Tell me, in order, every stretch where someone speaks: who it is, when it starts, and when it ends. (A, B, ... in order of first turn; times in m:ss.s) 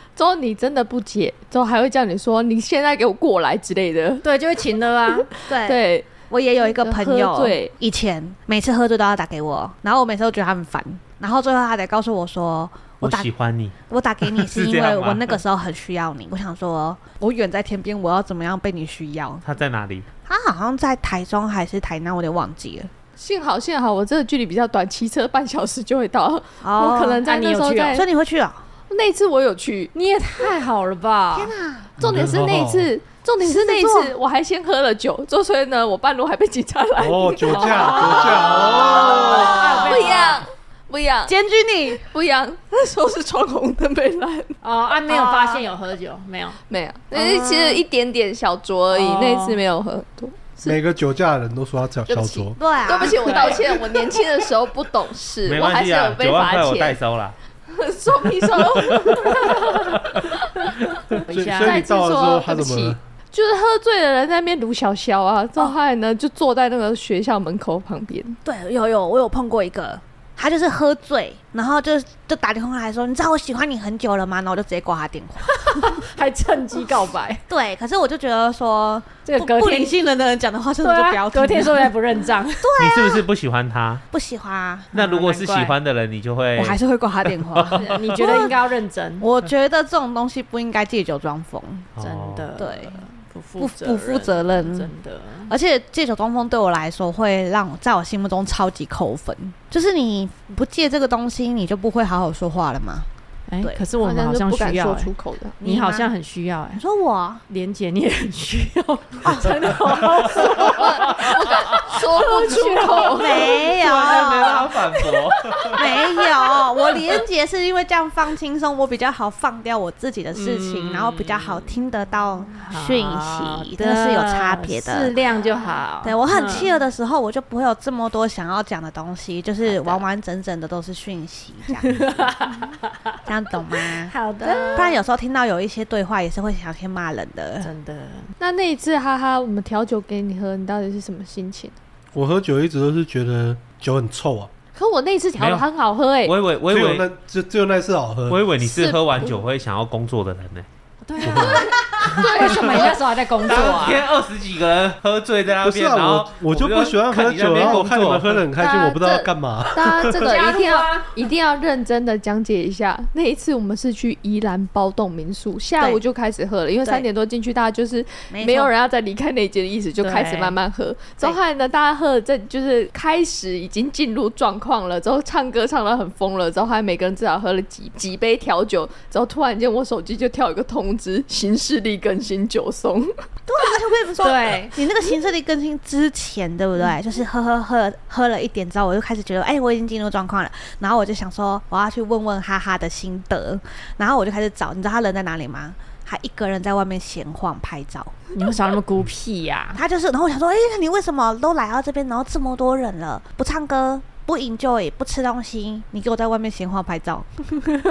0:00.2-0:04.2 A
0:04.2-0:05.3 B
0:05.1-0:07.7 A
0:05.5-0:13.3 C
0:13.0-0:15.4 D
0:13.9-0:19.4 C
0:19.4-0:20.1 D
0:20.3-0:22.9 C
0:23.2-0:28.1 A
0:26.6-0:27.2 C
0:27.2-0:28.0 B
0:27.9-0:28.6 C
0:28.9-0:29.9 A
0:29.9-0:31.5 B
0:31.3-0:32.0 C
0:32.0-0:32.9 E
0:32.0-0:41.3 A
0:33.4-0:34.1 C
0:37.0-0:39.7 E
0:37.5-0:40.5 B
0:39.1-0:40.0 C
0:41.3-0:42.0 C
0:42.0-0:44.6 A
0:44.6-0:46.6 B
0:45.1-0:45.6 C
0:46.7-0:50.8 A
0:47.1-0:47.8 B
0:48.9-0:49.6 B
0:50.6-0:52.6 E
0:52.1-0:57.0 A
0:52.6-0:53.6 C
0:53.1-0:53.8 B
0:55.4-0:57.4 D
0:57.7-1:00.7 A
0:58.6-0:59.2 D
1:01.2-1:01.8 B
1:01.3-1:03.0 E
1:01.6-1:08.4 A
1:08.4-1:16.0 C
1:15.6-1:17.4 B
1:17.5-1:21.9 C
1:19.3-1:19.9 B
1:20.8-1:22.7 B
1:22.6-1:23.2 C
1:22.8-1:24.0 D
1:24.1-1:24.9 C
1:24.9-1:28.0 D
1:24.9-1:25.8 B
1:26.6-1:28.5 C
1:27.7-1:29.3 B
1:29.2-1:31.9 C
1:32.0-1:32.5 D
1:32.0-1:35.5 B
1:32.6-1:33.0 C
1:33.6-1:34.9 C
1:35.5-1:43.1 C
1:43.5-1:46.8 B
1:44.0-1:45.6 A
1:45.6-1:46.1 C
1:46.7-1:47.4 C
1:47.5-1:53.7 B
1:49.2-1:50.0 C
1:50.4-1:53.5 A
1:53.1-1:54.7 C
1:53.6-1:55.8 D
1:55.7-2:05.1 C
2:00.3-2:01.7 B
2:02.6-2:06.7 B
2:06.0-2:12.5 C
2:09.6-2:10.1 B
2:12.1-2:13.1 B
2:13.3-2:17.7 C
2:14.1-2:15.0 B
2:17.6-2:18.3 B
2:18.4-2:21.8 A
2:22.1-2:24.5 E
2:24.8-2:26.4 A
2:25.4-2:25.7 D
2:26.2-2:27.1 D
2:26.7-2:28.4 E
2:28.3-2:30.7 D
2:28.6-2:29.4 A
2:31.0-2:34.0 B
2:31.3-2:31.6 E
2:31.3-2:32.8 D
2:31.3-2:33.0 A
2:31.7-2:32.2 C
2:33.4-2:38.4 D
2:35.6-2:40.2 E
2:38.6-3:03.1 A
2:40.2-2:41.1 B
2:48.3-2:48.7 C
2:50.0-2:50.6 B
3:03.5-3:18.1 C
3:04.2-3:04.7 B
3:18.4-3:19.8 B
3:19.8-3:27.4 C